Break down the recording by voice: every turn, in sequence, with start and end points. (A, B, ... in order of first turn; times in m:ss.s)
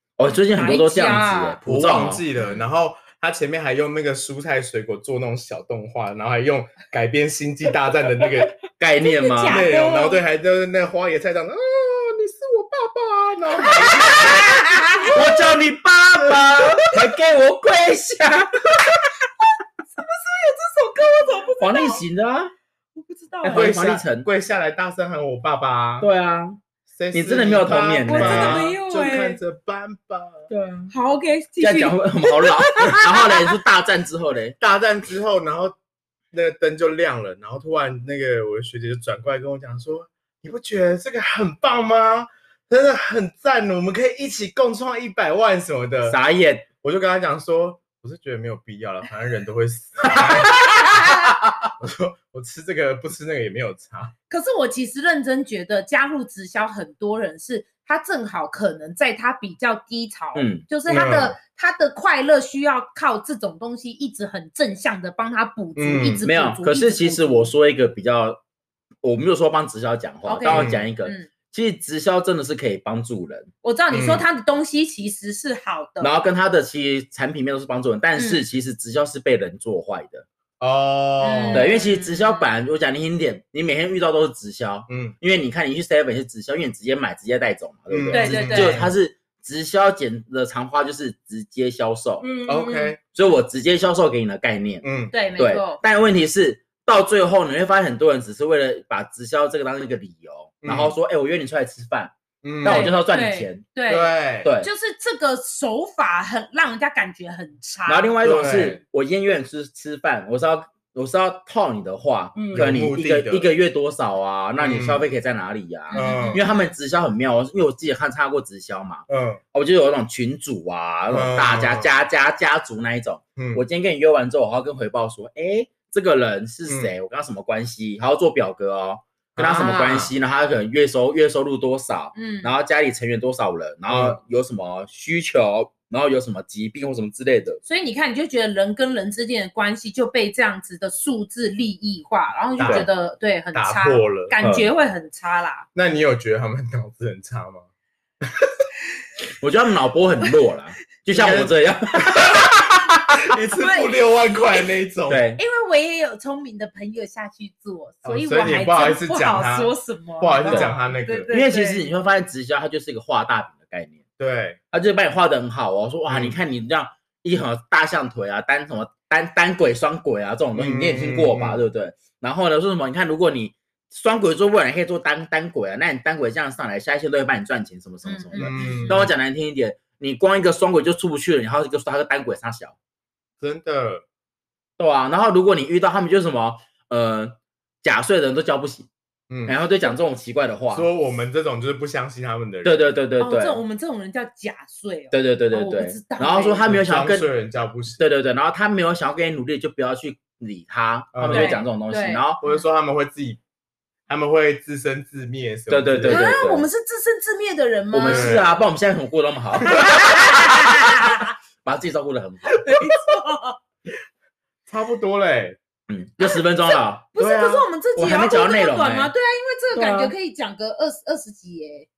0:00.2-0:02.2 A
0:00.5-0:01.6 B
0:01.6-0:08.5 C
0:02.4-0:02.6 B
0:08.8-0:09.6 A
0:09.0-0:10.2 B
0:09.5-0:14.6 C
0:13.6-0:15.2 B
0:15.1-0:18.8 A
0:16.3-0:16.6 C
0:19.8-0:22.0 B
0:21.6-0:22.5 A
0:22.9-0:23.7 B
0:23.4-0:24.3 A
0:23.4-0:26.1 C
0:26.0-0:26.6 A
0:26.9-0:30.5 C
0:27.1-0:28.7 A
0:28.0-0:29.4 B
0:30.5-0:33.6 B
0:31.6-0:34.6 A
0:34.6-0:35.7 C
0:36.3-0:46.2 C
0:46.1-0:46.7 A
0:46.8-0:50.6 C
0:50.4-0:51.3 B
0:51.8-0:54.1 C
0:54.3-1:07.5 B
1:00.3-1:00.6 A
1:00.8-1:01.4 C
1:05.8-1:06.3 C
1:06.2-1:08.4 A
1:09.0-1:13.5 A
1:10.2-1:11.3 B
1:10.5-1:10.9 C
1:13.6-1:16.1 B
1:13.9-1:14.2 C
1:16.0-1:20.2 A
1:18.2-1:18.4 B
1:20.6-1:21.7 C
1:21.2-1:22.5 B
1:21.5-1:32.3 A
1:24.9-1:25.2 C
1:27.9-1:28.9 C
1:28.1-1:28.9 B
1:32.2-1:33.0 B
1:32.4-1:33.0 C
1:33.1-1:43.6 A
1:34.8-1:35.1 C
1:35.1-1:35.8 B
1:40.6-1:40.9 C
1:42.4-1:42.9 C
1:42.6-1:48.1 B
1:43.9-1:44.5 C
1:44.4-1:44.7 A
1:47.8-2:17.6 A
1:48.2-1:48.8 C
1:52.4-1:53.5 C
1:54.6-1:55.0 C
1:55.9-1:56.6 B
1:55.9-1:56.4 C
1:59.1-1:59.4 C
2:01.1-2:02.0 C
2:03.4-2:03.6 C
2:06.7-2:06.9 C
2:09.3-2:10.1 C
2:12.1-2:12.5 B
2:13.9-2:14.2 C
2:17.6-2:25.6 B
2:22.6-2:22.9 C
2:22.6-2:22.9 A
2:23.5-2:24.4 C
2:24.4-2:24.7 A
2:25.7-2:27.6 C
2:29.4-2:32.4 A
2:31.1-2:31.5 C
2:32.1-2:35.2 C
2:33.5-2:34.1 B
2:35.1-2:35.4 A
2:35.4-2:41.9 B
2:38.0-2:41.4 C
2:41.3-2:44.0 A
2:44.2-2:44.6 C
2:44.7-3:02.7 A
2:46.0-2:46.4 C
2:50.5-2:51.6 C
2:58.0-2:59.1 B
2:58.4-2:59.1 C
3:03.4-3:04.0 C
3:04.8-3:08.9 A
3:09.3-3:09.6 C
3:09.4-3:10.9 A
3:10.7-3:12.9 C
3:12.6-3:13.6 A
3:13.2-3:16.6 B
3:15.1-3:17.3 A
3:16.6-3:18.0 C
3:18.0-3:22.4 A
3:21.1-3:21.6 C
3:21.3-3:22.6 B
3:22.4-3:23.4 C
3:24.1-3:26.4 C
3:25.7-3:26.7 A
3:26.1-3:28.6 B
3:27.9-3:30.4 A
3:28.0-3:28.5 C
3:29.6-3:30.0 C
3:29.7-3:31.3 B
3:31.6-3:32.7 A
3:32.6-3:33.6 B
3:34.7-3:35.6 C
3:35.9-3:37.1 A
3:36.2-3:41.9 B
3:37.2-3:37.7 C
3:37.9-3:39.1 A
3:39.7-3:40.1 C